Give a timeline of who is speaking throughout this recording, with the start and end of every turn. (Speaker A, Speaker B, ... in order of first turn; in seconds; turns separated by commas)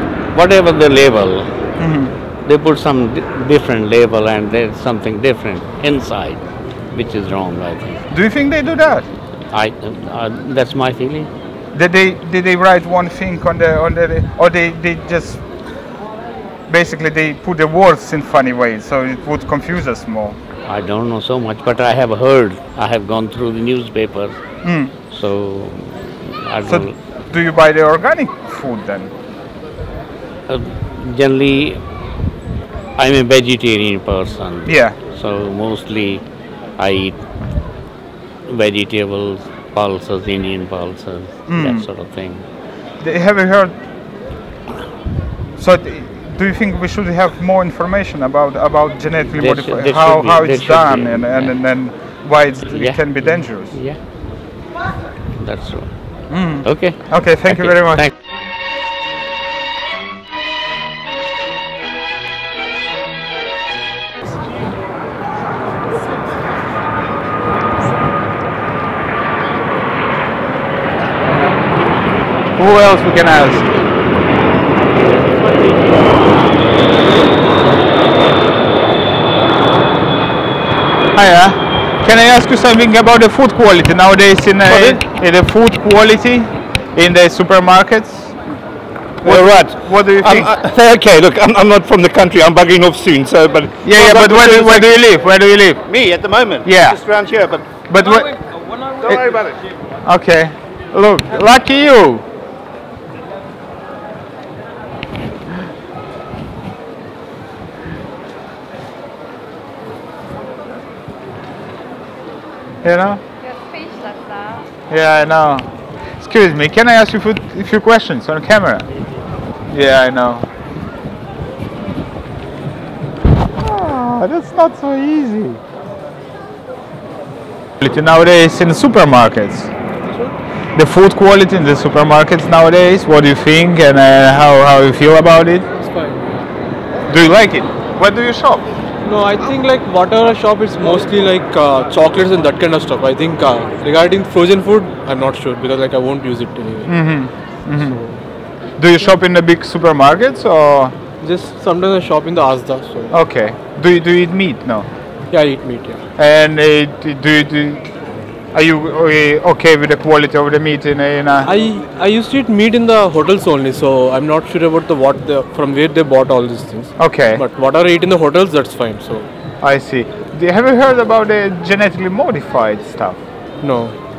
Speaker A: 0.3-1.5, Speaker B: 1.8-2.1, Speaker A: 2.4-8.0, Speaker B: 8.1-9.1, Speaker A: 9.5-11.3, Speaker B: 11.7-15.4, Speaker B: 16.7-20.4, Speaker A: 20.7-24.4, Speaker B: 24.6-24.9, Speaker A: 25.1-26.9, Speaker B: 26.6-29.1, Speaker A: 30.5-31.8, Speaker A: 33.0-36.2, Speaker B: 34.6-35.0, Speaker A: 36.8-37.2, Speaker A: 38.5-42.4, Speaker B: 41.5-41.9, Speaker B: 43.0-43.7, Speaker B: 45.6-53.8, Speaker A: 49.4-51.6, Speaker A: 52.6-54.0, Speaker A: 55.4-58.1, Speaker B: 56.3-58.1, Speaker B: 72.5-73.7, Speaker B: 81.1-88.3, Speaker C: 89.2-95.0, Speaker B: 89.2-90.5, Speaker B: 93.8-96.0, Speaker C: 95.9-97.7, Speaker B: 96.6-97.0, Speaker B: 97.9-98.4, Speaker C: 99.0-99.5, Speaker B: 99.0-99.4, Speaker B: 100.0-102.2, Speaker B: 112.8-113.2, Speaker B: 114.9-118.9, Speaker B: 119.7-120.5, Speaker B: 123.5-125.6, Speaker B: 127.8-129.7, Speaker B: 130.7-135.7, Speaker D: 135.8-136.4, Speaker B: 137.1-138.7, Speaker D: 139.0-148.2, Speaker B: 146.8-148.2, Speaker B: 148.7-150.9, Speaker D: 151.2-153.1, Speaker B: 153.1-154.9, Speaker D: 155.3-156.0, Speaker B: 156.2-157.9, Speaker B: 158.5-161.5, Speaker D: 161.4-169.3, Speaker B: 167.0-167.4, Speaker B: 169.6-173.2, Speaker D: 173.6-173.9